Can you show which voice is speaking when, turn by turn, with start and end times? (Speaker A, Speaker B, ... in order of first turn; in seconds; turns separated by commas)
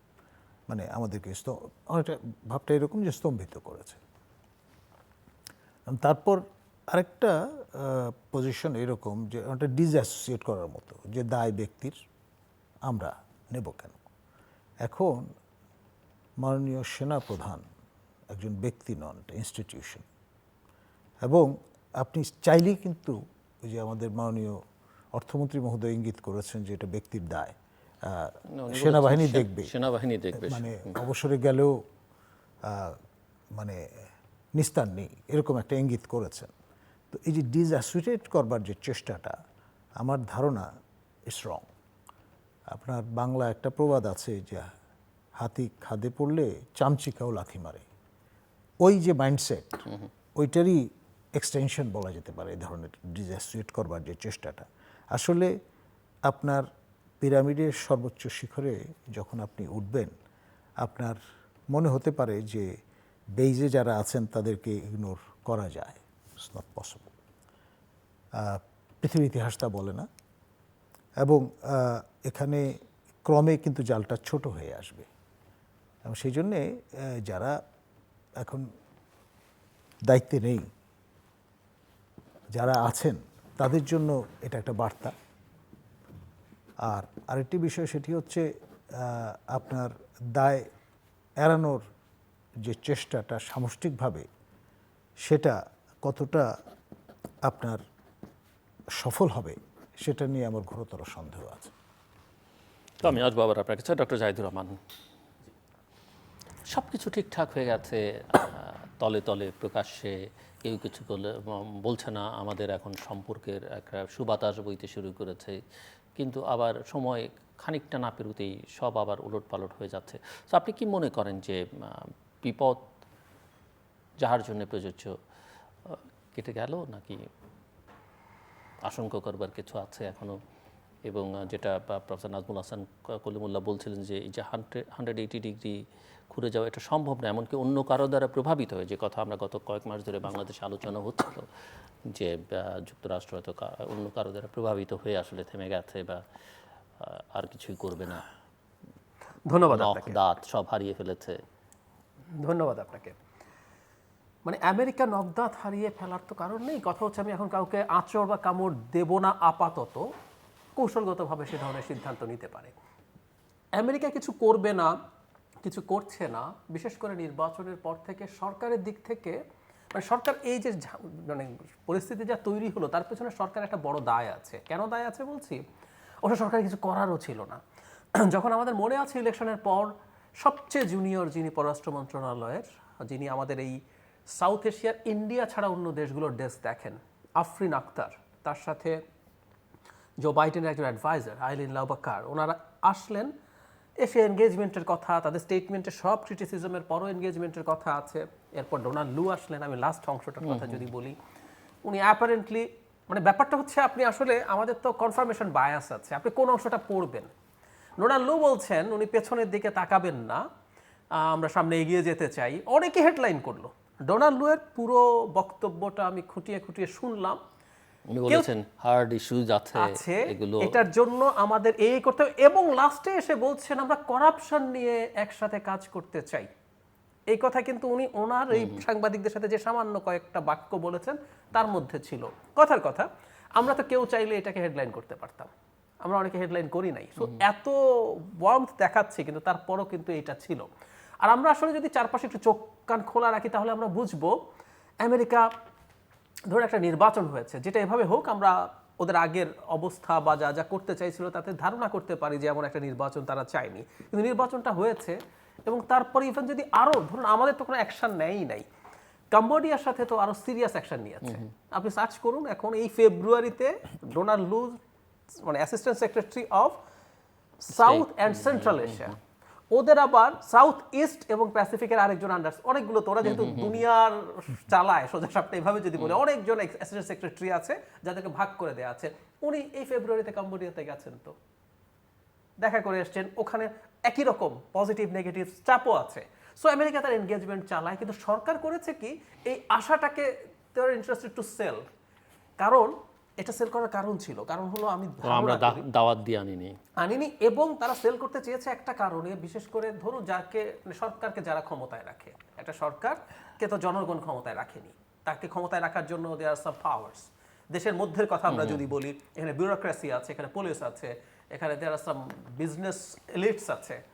Speaker A: 0.7-4.0, Speaker A: 5.9-12.0, Speaker A: 12.9-14.0, Speaker A: 14.8-15.3, Speaker A: 16.4-17.6, Speaker A: 18.3-20.1, Speaker A: 21.2-24.6, Speaker A: 25.1-27.5, Speaker A: 28.1-29.7, Speaker B: 28.6-30.9, Speaker A: 30.4-31.8, Speaker A: 32.6-33.0, Speaker A: 33.6-33.8, Speaker A: 34.6-36.5, Speaker A: 37.1-39.4, Speaker A: 40.0-40.7, Speaker A: 41.3-41.7, Speaker A: 42.7-44.6, Speaker A: 45.4-47.9, Speaker A: 48.8-49.9, Speaker A: 50.4-55.5, Speaker A: 56.3-56.7, Speaker A: 57.2-60.1, Speaker A: 60.8-61.2, Speaker A: 61.7-62.7, Speaker A: 63.4-67.1, Speaker A: 68.3-70.1, Speaker A: 71.2-75.1, Speaker A: 76.0-77.6, Speaker A: 78.4-78.7, Speaker A: 80.1-80.7, Speaker A: 82.5-85.1, Speaker A: 86.8-90.7, Speaker A: 91.4-91.8, Speaker A: 92.7-94.3, Speaker A: 95.3-96.5, Speaker A: 97.5-97.8, Speaker A: 99.0-101.7, Speaker B: 103.0-104.8, Speaker B: 106.7-115.6, Speaker B: 116.2-122.9, Speaker B: 124.2-125.1, Speaker B: 125.9-127.2, Speaker B: 128.8-130.4, Speaker B: 131.1-141.5, Speaker B: 142.1-146.2, Speaker B: 147.0-148.2, Speaker C: 149.5-150.2, Speaker B: 149.7-151.4, Speaker C: 152.4-153.2, Speaker C: 154.4-160.1, Speaker C: 160.8-162.7, Speaker C: 163.8-164.9, Speaker C: 165.6-169.4, Speaker C: 169.9-175.6, Speaker C: 176.2-177.6, Speaker C: 178.2-183.8, Speaker C: 184.3-189.0, Speaker C: 190.2-193.3, Speaker C: 194.0-201.2, Speaker B: 200.4-200.8, Speaker C: 201.8-207.3, Speaker C: 208.0-210.4, Speaker C: 211.2-217.4, Speaker B: 218.1-220.8, Speaker C: 219.8-226.5, Speaker C: 227.3-235.5, Speaker B: 228.6-228.8, Speaker C: 236.0-237.8, Speaker C: 238.4-240.7, Speaker C: 241.2-244.3, Speaker C: 245.0-245.5, Speaker C: 246.5-258.7, Speaker C: 259.3-264.8, Speaker C: 265.4-266.8, Speaker C: 267.6-269.2, Speaker B: 267.7-269.1, Speaker C: 269.7-281.4, Speaker B: 273.2-273.8, Speaker C: 282.6-291.8, Speaker C: 292.6-295.8, Speaker B: 295.2-296.8, Speaker C: 297.0-314.0, Speaker B: 308.5-308.9